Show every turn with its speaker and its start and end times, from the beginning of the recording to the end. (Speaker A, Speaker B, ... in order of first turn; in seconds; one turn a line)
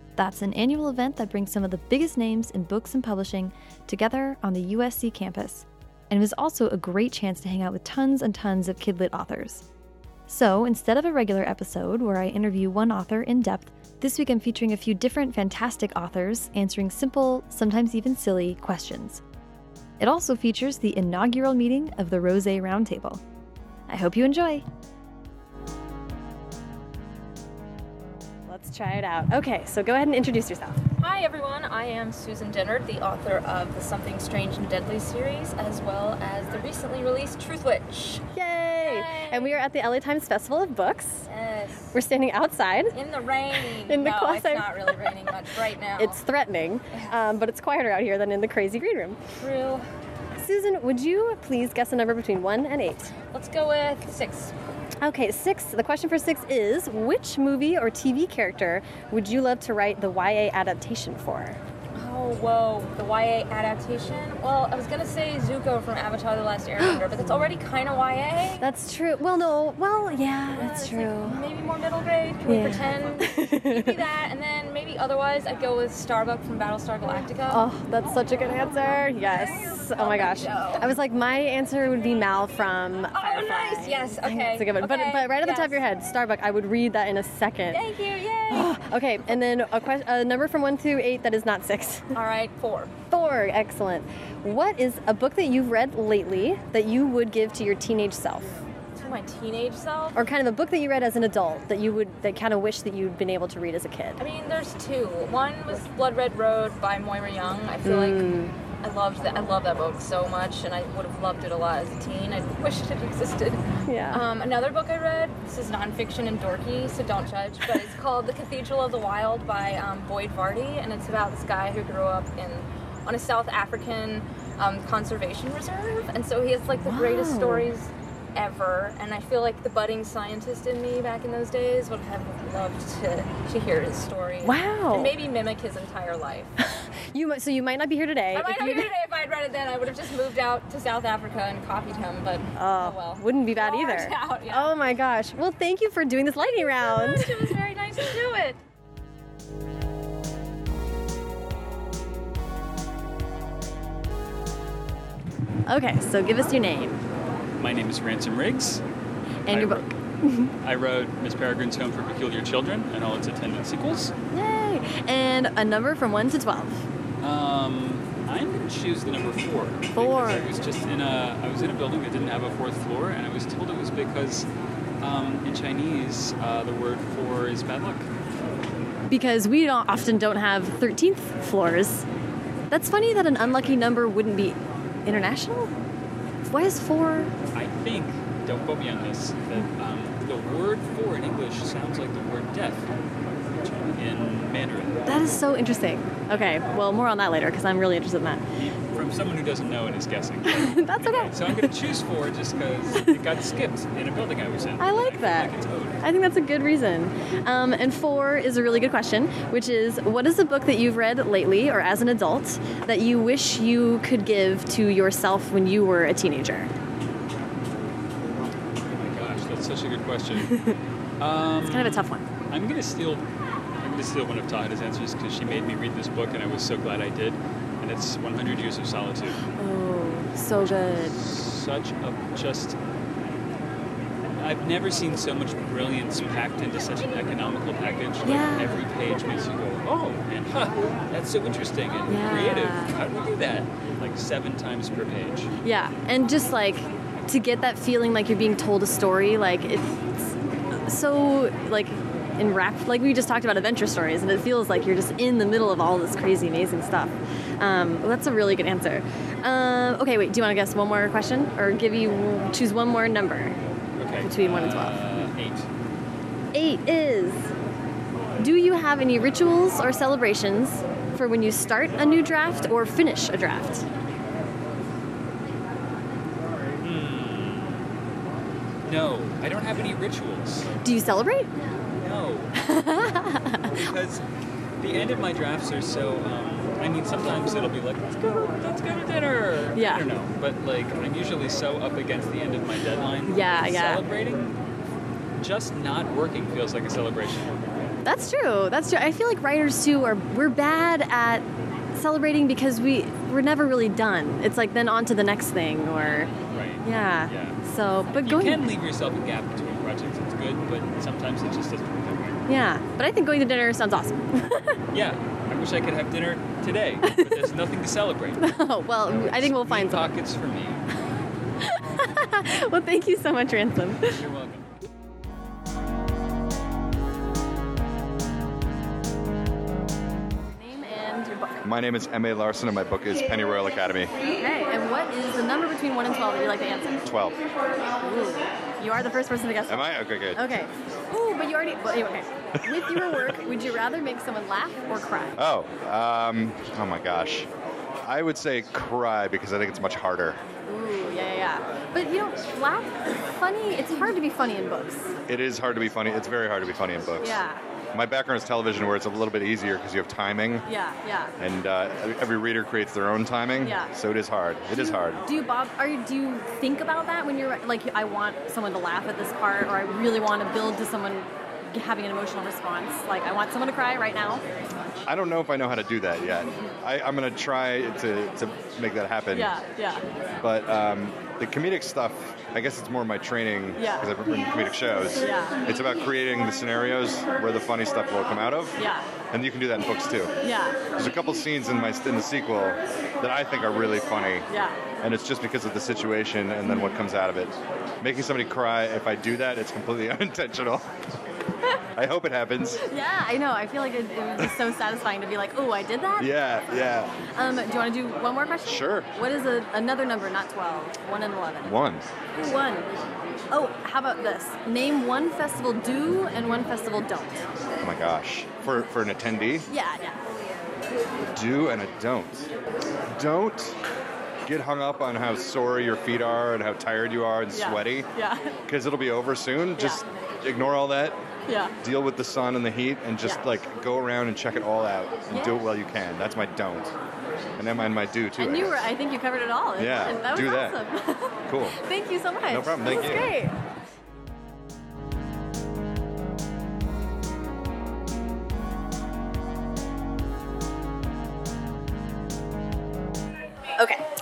Speaker A: 0.2-9.6
Speaker A: 10.3-19.2
Speaker A: 20.0-23.2
Speaker A: 23.9-24.6
Speaker B: 28.5-30.8
Speaker C: 31.0-38.2
Speaker B: 38.3-41.2
Speaker C: 38.8-39.6
Speaker C: 41.3-42.0
Speaker B: 41.9-43.0
Speaker C: 42.9-46.2
Speaker B: 43.6-44.9
Speaker B: 46.0-49.2
Speaker C: 49.4-49.8
Speaker B: 50.4-53.1
Speaker C: 53.3-54.5
Speaker B: 55.0-61.6
Speaker C: 62.0-68.7
Speaker B: 66.8-67.1
Speaker B: 68.6-71.4
Speaker C: 70.5-77.6
Speaker B: 72.5-74.0
Speaker B: 77.5-87.8
Speaker C: 79.2-80.9
Speaker C: 83.1-85.8
Speaker C: 87.7-88.7
Speaker B: 88.5-92.1
Speaker C: 92.1-92.9
Speaker B: 93.1-98.5
Speaker C: 99.0-100.2
Speaker B: 100.2-104.2
Speaker C: 104.2-108.3
Speaker B: 107.8-108.5
Speaker C: 108.8-136.5
Speaker B: 113.8-114.2
Speaker B: 126.8-127.7
Speaker B: 134.4-135.1
Speaker B: 136.6-138.9
Speaker C: 138.3-144.8
Speaker B: 142.5-147.6
Speaker C: 146.4-148.6
Speaker B: 155.7-157.0
Speaker D: 157.6-158.8
Speaker B: 159.4-160.5
Speaker D: 159.5-159.9
Speaker D: 160.6-164.1
Speaker B: 164.3-166.8
Speaker D: 167.2-174.5
Speaker B: 169.9-170.4
Speaker D: 175.0-178.1
Speaker B: 179.1-182.1
Speaker B: 182.7-185.7
Speaker D: 183.3-183.9
Speaker B: 186.5-187.3
Speaker D: 187.5-192.9
Speaker D: 193.6-195.2
Speaker B: 195.1-198.4
Speaker D: 198.5-206.0
Speaker B: 200.5-201.7
Speaker B: 204.8-216.7
Speaker D: 218.9-220.6
Speaker D: 221.2-223.2
Speaker B: 221.6-222.2
Speaker D: 223.8-229.4
Speaker B: 229.6-231.2
Speaker D: 230.8-232.8
Speaker D: 234.4-245.5
Speaker B: 238.2-238.8
Speaker B: 242.1-242.9
Speaker B: 245.6-263.6
Speaker D: 263.9-265.6
Speaker B: 264.2-264.9
Speaker B: 266.5-267.5
Speaker B: 268.4-273.9
Speaker D: 276.8-277.9
Speaker D: 278.8-280.7
Speaker B: 280.8-281.5
Speaker D: 282.0-282.6
Speaker B: 282.6-283.8
Speaker D: 283.7-284.2
Speaker D: 284.8-294.6
Speaker B: 289.7-290.1
Speaker B: 293.2-294.0
Speaker D: 295.4-297.9
Speaker B: 298.0-308.7
Speaker D: 306.4-307.6
Speaker D: 308.1-312.4
Speaker B: 312.5-314.8
Speaker D: 314.9-318.6
Speaker B: 317.1-317.4
Speaker B: 318.4-320.1
Speaker D: 319.1-320.8
Speaker B: 321.6-324.2
Speaker D: 324.0-324.7
Speaker B: 330.5-331.6
Speaker E: 331.6-334.1
Speaker B: 334.4-337.0
Speaker E: 337.0-337.4
Speaker B: 337.9-345.4
Speaker E: 339.6-340.4
Speaker E: 342.6-343.2
Speaker E: 345.4-347.5
Speaker E: 348.0-350.4
Speaker B: 350.6-355.1
Speaker E: 355.3-357.4
Speaker B: 357.2-357.6
Speaker E: 357.9-360.6
Speaker B: 360.7-361.3
Speaker E: 361.4-365.2
Speaker B: 363.6-363.9
Speaker B: 364.7-374.4
Speaker E: 375.1-379.6
Speaker B: 379.3-380.0
Speaker E: 380.4-388.8
Speaker B: 383.8-384.1
Speaker B: 385.2-385.6
Speaker B: 388.8-389.0
Speaker E: 389.3-390.3
Speaker B: 390.4-390.8
Speaker E: 390.9-394.5
Speaker B: 394.5-394.8
Speaker E: 395.0-400.8
Speaker B: 396.6-397.0
Speaker E: 401.9-402.8
Speaker B: 402.9-406.3
Speaker E: 406.2-407.2
Speaker B: 407.3-411.7
Speaker E: 408.6-409.1
Speaker E: 411.6-412.1
Speaker B: 412.3-412.9
Speaker B: 413.5-417.5
Speaker E: 417.8-419.7
Speaker B: 419.7-420.2
Speaker E: 421.3-422.5
Speaker E: 423.1-423.8
Speaker E: 424.4-428.1
Speaker B: 427.5-428.5
Speaker E: 428.7-431.2
Speaker B: 431.5-431.7
Speaker E: 431.8-436.9
Speaker B: 435.3-435.6
Speaker E: 437.6-438.9
Speaker B: 438.4-443.5
Speaker E: 439.8-440.8
Speaker E: 441.5-441.8
Speaker E: 442.4-443.3
Speaker B: 453.8-454.0